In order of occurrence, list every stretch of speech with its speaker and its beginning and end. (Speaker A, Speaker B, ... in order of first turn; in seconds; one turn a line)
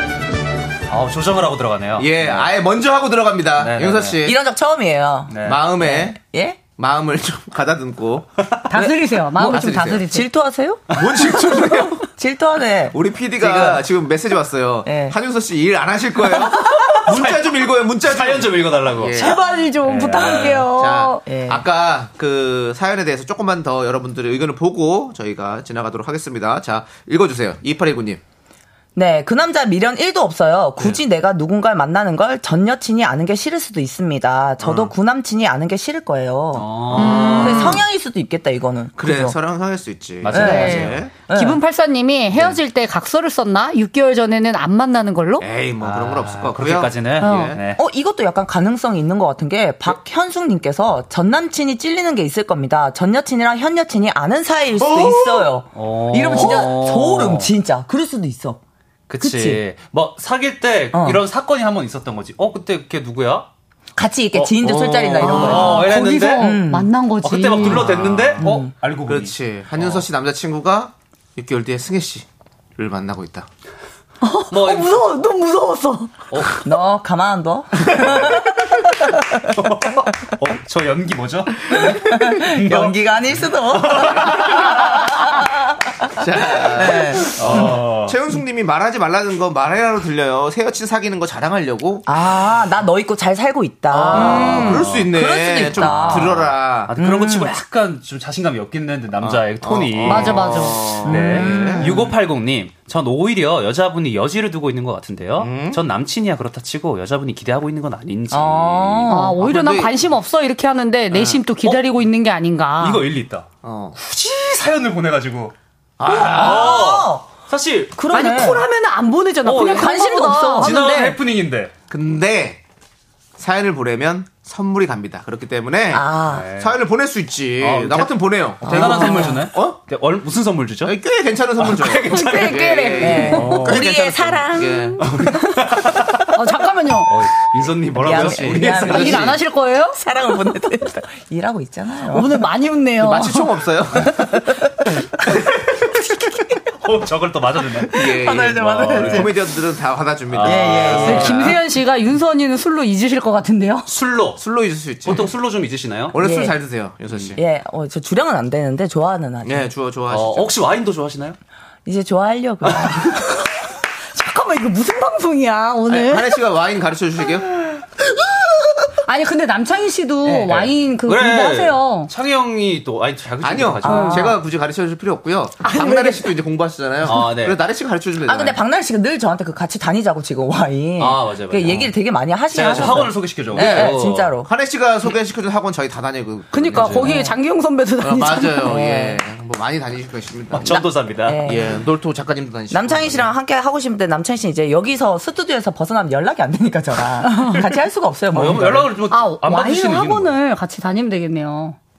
Speaker A: 0.9-2.5
Speaker B: 2.0-4.4
Speaker A: 3.6-4.2
Speaker C: 4.2-6.6
Speaker A: 5.3-5.6
Speaker B: 5.4-6.2
Speaker B: 6.8-8.3
Speaker A: 8.4-8.7
Speaker D: 8.7-10.3
Speaker B: 9.4-10.0
Speaker C: 10.0-10.9
Speaker B: 10.9-12.0
Speaker A: 10.9-11.4
Speaker C: 12.0-13.8
Speaker B: 12.9-19.4
Speaker C: 14.8-15.2
Speaker A: 16.6-20.7
Speaker D: 19.1-21.2
Speaker B: 20.2-28.2
Speaker C: 21.2-21.6
Speaker C: 28.9-39.4
Speaker B: 34.6-34.9
Speaker A: 36.5-37.8
Speaker B: 36.9-37.8
Speaker B: 39.0-41.1
Speaker A: 40.2-41.0
Speaker C: 40.3-41.6
Speaker D: 41.3-45.5
Speaker B: 45.4-47.6
Speaker A: 45.8-47.8
Speaker D: 47.2-47.6
Speaker C: 47.7-58.6
Speaker B: 54.8-55.5
Speaker A: 55.7-57.5
Speaker A: 59.1-63.5
Speaker C: 59.2-59.6
Speaker C: 60.9-61.2
Speaker C: 64.0-66.9
Speaker A: 64.3-66.5
Speaker D: 65.2-67.9
Speaker A: 67.2-70.0
Speaker B: 67.8-68.5
Speaker C: 68.4-68.7
Speaker B: 69.0-72.2
Speaker B: 72.8-73.5
Speaker D: 74.2-76.2
Speaker A: 74.5-74.9
Speaker C: 76.6-79.5
Speaker A: 79.5-84.7
Speaker C: 81.7-86.1
Speaker B: 86.2-92.0
Speaker C: 86.7-87.8
Speaker A: 87.3-88.2
Speaker C: 92.0-97.5
Speaker B: 93.9-96.9
Speaker A: 94.1-95.2
Speaker A: 95.8-109.2
Speaker B: 99.2-102.0
Speaker D: 100.0-101.0
Speaker C: 101.0-102.1
Speaker B: 105.3-105.8
Speaker C: 108.3-109.3
Speaker D: 109.1-113.0
Speaker B: 109.4-109.9
Speaker A: 111.1-111.8
Speaker A: 112.8-115.5
Speaker B: 113.6-114.0
Speaker B: 116.0-116.9
Speaker C: 116.0-117.2
Speaker A: 116.1-117.9
Speaker C: 117.9-118.6
Speaker D: 118.1-121.2
Speaker A: 119.4-120.0
Speaker C: 119.6-120.7
Speaker A: 120.6-121.7
Speaker B: 121.9-122.6
Speaker B: 123.4-129.8
Speaker C: 125.9-126.5
Speaker A: 126.3-126.8
Speaker A: 127.6-130.9
Speaker C: 128.6-129.5
Speaker B: 130.8-135.1
Speaker A: 131.6-133.8
Speaker D: 132.1-133.3
Speaker C: 133.0-135.0
Speaker A: 135.0-136.3
Speaker D: 136.3-137.1
Speaker A: 137.1-139.3
Speaker C: 138.0-139.3
Speaker B: 138.0-139.4
Speaker D: 138.9-140.0
Speaker C: 139.9-142.4
Speaker D: 142.1-143.5
Speaker B: 143.0-144.2
Speaker A: 146.8-149.3
Speaker B: 147.9-151.6
Speaker C: 148.0-149.3
Speaker A: 150.3-151.6
Speaker C: 150.4-151.4
Speaker D: 151.0-153.9
Speaker A: 153.9-154.4
Speaker B: 154.4-155.3
Speaker A: 155.0-156.2
Speaker B: 156.1-157.4
Speaker C: 156.2-156.6
Speaker A: 157.1-157.3
Speaker C: 157.3-159.7
Speaker B: 159.4-160.5
Speaker A: 160.1-161.3
Speaker C: 161.8-163.3
Speaker A: 162.6-163.0
Speaker D: 164.1-166.3
Speaker B: 165.9-167.5
Speaker D: 169.0-172.1
Speaker C: 170.2-170.6
Speaker A: 170.5-174.3
Speaker B: 173.4-178.6
Speaker D: 173.9-174.2
Speaker C: 173.9-174.3
Speaker D: 175.6-176.3
Speaker A: 177.0-177.6
Speaker C: 178.2-184.5
Speaker A: 181.0-181.9
Speaker A: 182.5-184.3
Speaker B: 183.5-187.0
Speaker D: 186.5-188.7
Speaker A: 186.6-187.1
Speaker C: 187.0-187.4
Speaker B: 188.0-190.7
Speaker C: 188.6-189.2
Speaker A: 190.5-191.4
Speaker C: 190.7-191.8
Speaker B: 191.4-193.3
Speaker C: 192.7-199.0
Speaker A: 198.3-200.3
Speaker D: 199.0-201.8